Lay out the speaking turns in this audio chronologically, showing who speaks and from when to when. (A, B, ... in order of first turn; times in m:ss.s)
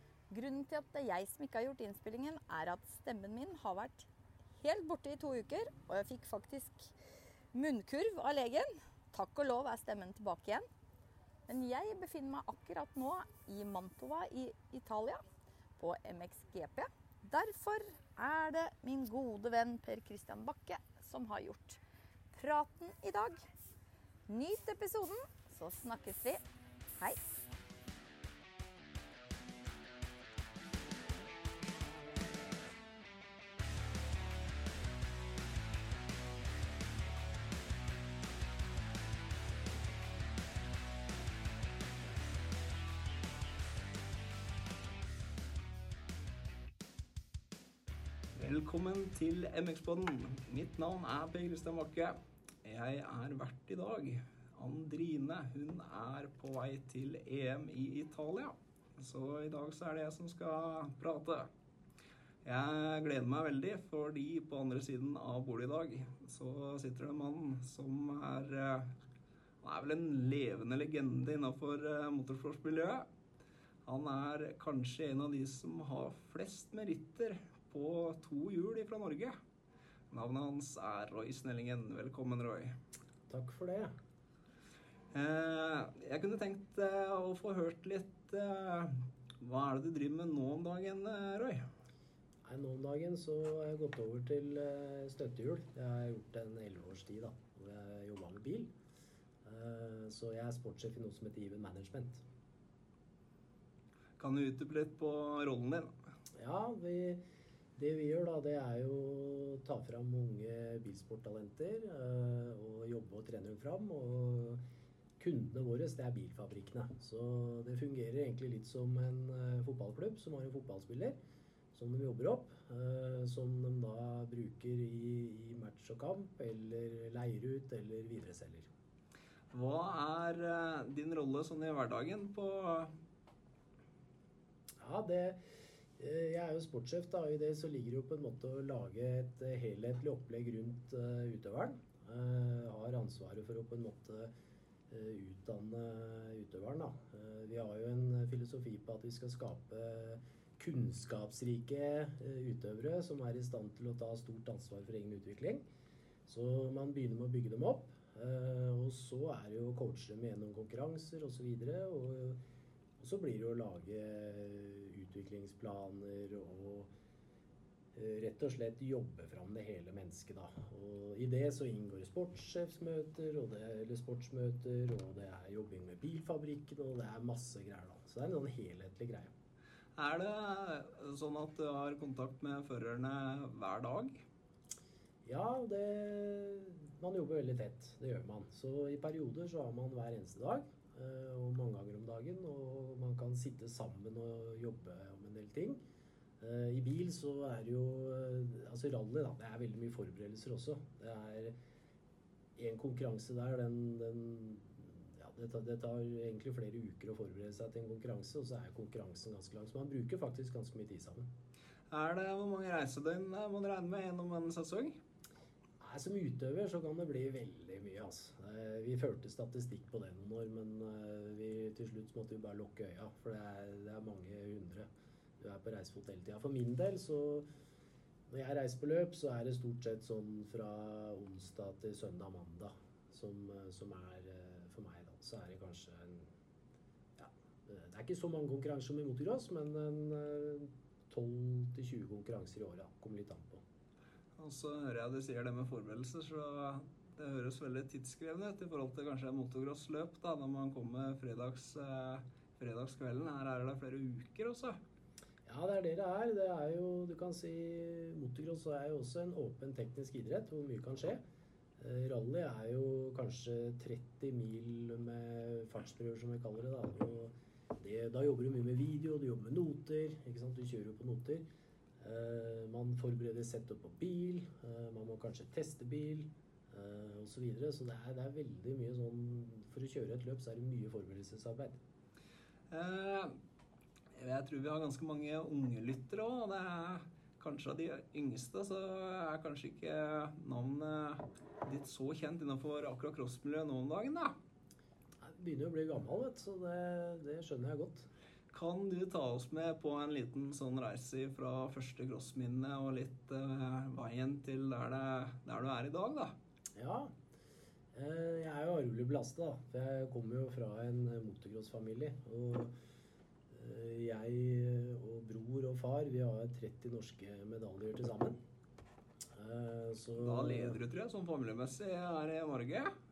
0:00.3-0:04.1 A
0:04.6-0:06.9 A
0:07.5-0:10.7 A
0:11.5-0:15.2 A
0:15.8-0:21.8 A
0:22.3-0:23.4 A
0:24.3-0:26.4 A
0:48.4-1:01.5 B
1:02.4-1:08.9 B
1:09.6-1:13.1 B
1:13.8-1:19.4 B
1:20.1-1:22.8 B
1:23.3-1:23.9 C
1:25.1-1:31.7 B
1:32.4-1:38.7 C
1:39.4-1:42.2 C
1:44.2-1:45.9 B
1:46.3-1:47.2 C
1:47.8-1:54.6 C
1:55.2-2:01.2 C
2:01.7-2:08.7 C
2:09.5-2:12.9 B
2:14.8-2:15.4 C
2:16.0-2:24.3 C
2:24.9-2:35.6 C
2:36.2-2:42.4 C
2:43.0-2:46.9 C
2:47.9-2:59.3 C
3:00.0-3:04.2 B
3:05.2-3:15.8 C
3:16.4-3:21.6 C
3:22.6-3:31.3 C
3:31.9-3:35.0 B
3:35.8-3:47.5 C
3:48.3-3:56.3 C
3:57.2-4:03.6 C
4:04.4-4:14.8 B
4:15.4-4:21.2 C
4:21.8-4:31.4 C
4:32.0-4:41.8 C
4:42.7-4:43.4 B
4:44.1-4:54.4 B
4:55.2-4:58.1 C
4:58.5-5:06.3 B
5:06.8-5:07.1 C
5:07.9-5:12.8 C
5:13.5-5:18.4 C
5:19.3-5:20.8 C
5:20.2-5:22.9 B